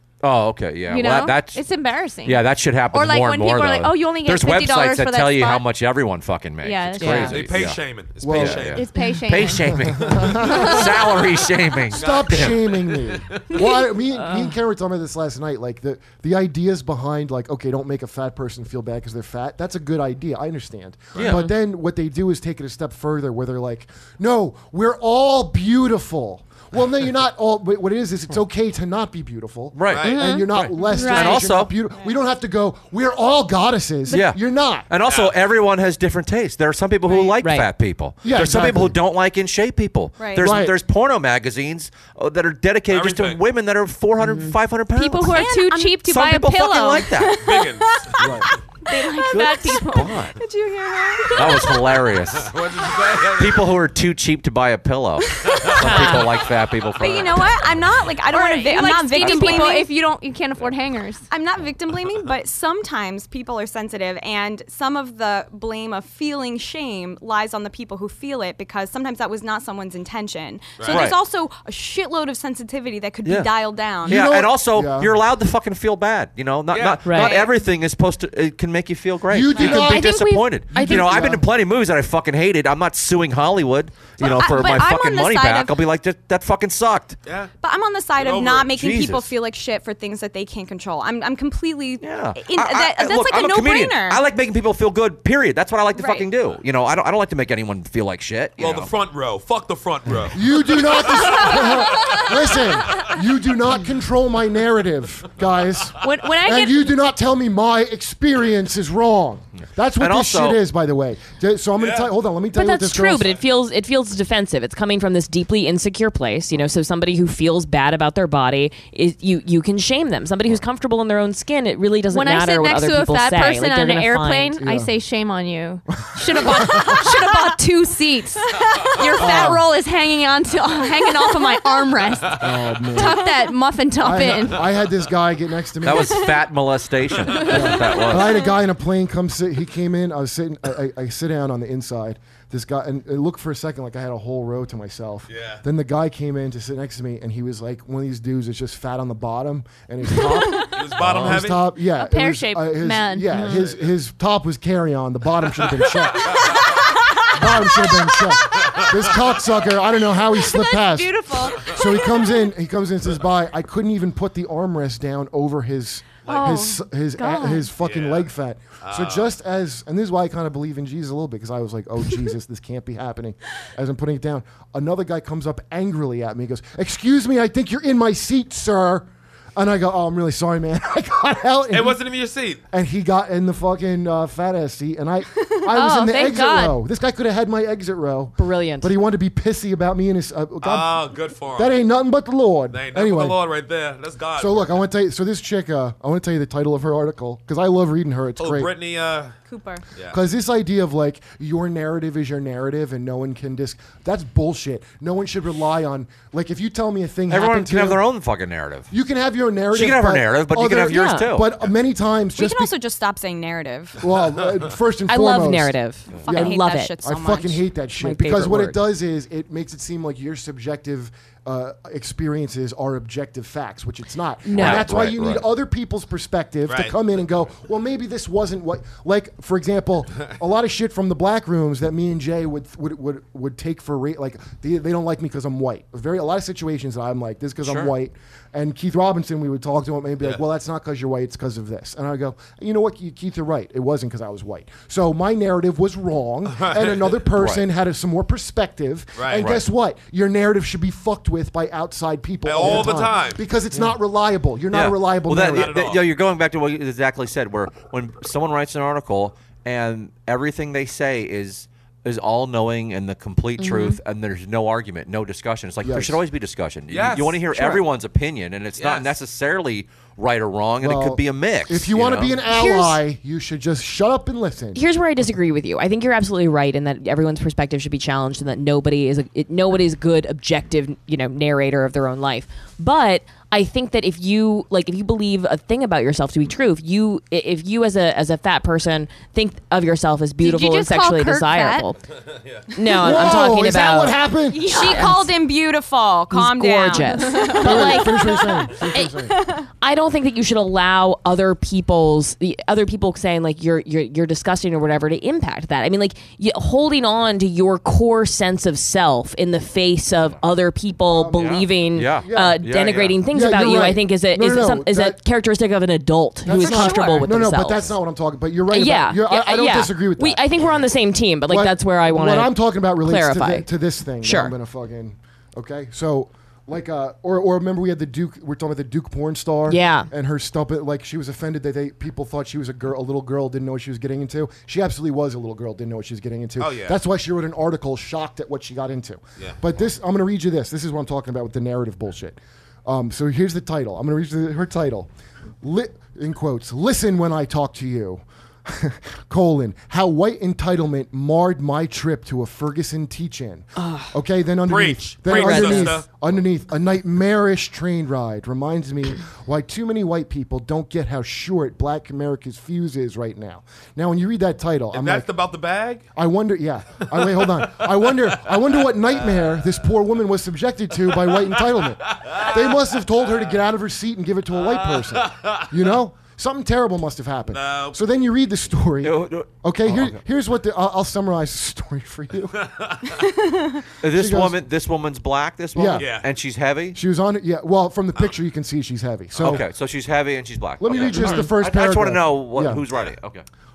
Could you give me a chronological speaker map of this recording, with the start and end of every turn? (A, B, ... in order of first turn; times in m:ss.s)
0:00.2-0:01.6 A
0:00.9-0:05.6 B
0:02.2-0:12.6 A
0:06.6-0:07.4 B
0:07.0-0:07.4 C
0:07.3-0:08.9 D
0:08.2-0:08.8 E
0:08.7-0:11.0 B
0:09.7-0:10.9 E
0:09.9-0:10.4 D
0:11.9-0:13.6 D
0:11.9-0:34.9 E
0:13.5-0:14.5 B
0:21.1-0:21.4 D
0:21.2-0:21.5 A
0:29.7-0:31.7 A
0:29.8-0:30.3 D
0:30.0-0:30.5 C
0:30.8-0:31.5 B
0:34.1-0:45.4 A
0:35.0-0:35.4 D
0:37.2-0:37.7 C
0:38.2-0:39.0 E
0:40.2-0:40.6 F
0:40.4-0:40.7 E
0:42.9-0:43.4 D
0:44.2-0:44.6 C
0:44.9-0:47.2 B
0:45.3-0:46.0 F
0:46.0-0:47.4 A
0:47.1-0:52.1 F
0:47.4-0:48.4 D
0:48.2-0:48.5 E
0:48.9-0:50.3 B
0:49.3-0:50.4 A
0:51.3-0:52.6 A
0:52.3-0:53.8 D
0:53.3-0:57.8 A
0:55.4-0:55.7 F
0:55.5-0:55.8 D
0:55.8-0:56.3 C
0:57.0-0:59.9 F
0:58.3-1:01.2 B
0:59.2-0:59.5 C
1:01.3-1:14.3 F
1:10.8-1:11.1 D
1:10.9-1:11.2 A
1:13.2-1:13.5 A
1:14.0-1:15.2 E
1:14.0-1:27.2 A
1:16.7-1:17.2 D
1:17.1-1:17.4 C
1:17.2-1:17.4 F
1:19.3-1:21.4 E
1:19.6-1:21.4 C
1:24.2-1:25.8 F
1:27.2-1:27.5 D
1:27.6-1:34.2 F
1:28.2-1:28.7 D
1:28.7-1:29.3 A
1:32.0-1:38.9 A
1:36.0-1:36.2 F
1:38.6-1:43.1 D
1:40.3-1:53.4 E
1:46.0-1:46.9 B
1:50.0-1:50.6 A
1:51.8-1:52.1 D
1:52.5-2:04.6 C
2:02.1-2:14.7 B
2:04.6-2:04.9 E
2:06.2-2:07.1 E
2:09.2-2:09.7 E
2:12.4-2:13.3 E
2:14.0-2:16.3 E
2:15.8-2:18.5 A
2:17.4-2:17.8 B
2:17.4-2:36.6 E
2:25.3-2:25.6 D
2:30.6-2:31.7 D
2:31.0-2:31.5 A
2:31.8-2:33.6 B
2:33.4-2:33.9 D
2:35.6-2:36.6 D
2:37.3-3:02.0 E
2:38.5-2:39.5 D
2:40.3-2:41.8 B
2:46.2-2:46.6 D
2:46.2-2:47.7 B
2:47.8-2:48.3 D
2:48.8-2:49.3 D
3:01.7-3:02.6 D
3:02.7-3:13.4 E
3:05.7-3:06.8 B
3:08.4-3:08.9 C
3:10.6-3:11.7 D
3:12.7-3:14.8 D
3:14.4-3:18.7 E
3:18.4-3:19.4 D
3:19.5-3:19.8 F
3:20.1-3:28.0 E
3:27.3-3:28.9 A
3:28.9-3:32.7 E
3:29.7-3:31.6 A
3:30.8-3:31.3 C
3:32.4-3:34.0 F
3:34.0-4:15.8 E
3:35.1-3:37.0 C
3:36.2-3:37.6 F
3:38.0-3:38.8 C
3:44.5-3:45.0 C
3:44.5-3:45.5 A
3:46.7-3:47.0 D
3:57.6-3:57.9 A
4:06.5-4:07.1 D
4:07.4-4:07.6 A
4:09.2-4:09.5 D
4:12.4-4:13.4 D
4:14.7-4:32.4 A
4:15.4-4:16.0 D
4:23.6-4:24.0 C
4:25.8-4:26.2 E
4:26.9-4:27.8 D
4:28.8-4:29.1 D
4:30.8-4:34.8 E
4:32.4-4:33.0 C
4:34.7-4:52.0 C
4:50.4-4:51.9 B
4:52.7-4:55.3 C
4:53.0-4:54.8 E
4:54.5-4:55.0 B
4:54.6-4:59.7 F
4:56.3-4:58.4 C
4:57.0-4:58.3 B
4:57.6-4:59.3 E
4:59.8-5:17.9 C
5:11.1-5:12.7 E
5:11.3-5:13.2 A
5:13.3-5:15.2 E
5:16.4-5:20.7 E
5:18.7-5:23.7 C
5:21.5-5:45.1 E
5:24.2-5:24.5 C
5:29.7-5:30.1 C
5:36.6-5:37.0 D
5:39.4-5:39.6 D
5:45.6-6:05.3 E
5:53.8-5:54.1 C
5:54.7-5:56.1 D
5:55.3-5:55.8 C
6:04.9-6:06.0 D
6:06.2-6:22.6 E
6:08.2-6:08.6 D
6:09.3-6:09.7 D
6:11.7-6:12.8 D
6:14.6-6:15.8 D
6:17.5-6:18.0 D
6:19.0-6:20.2 A
6:22.5-6:23.2 D
6:24.0-6:27.0 A
6:24.1-6:24.6 E
6:25.7-6:26.1 E
6:26.0-6:26.2 D
6:26.9-6:29.6 E
6:29.3-6:33.4 A
6:30.8-6:32.8 E
6:30.9-6:31.5 D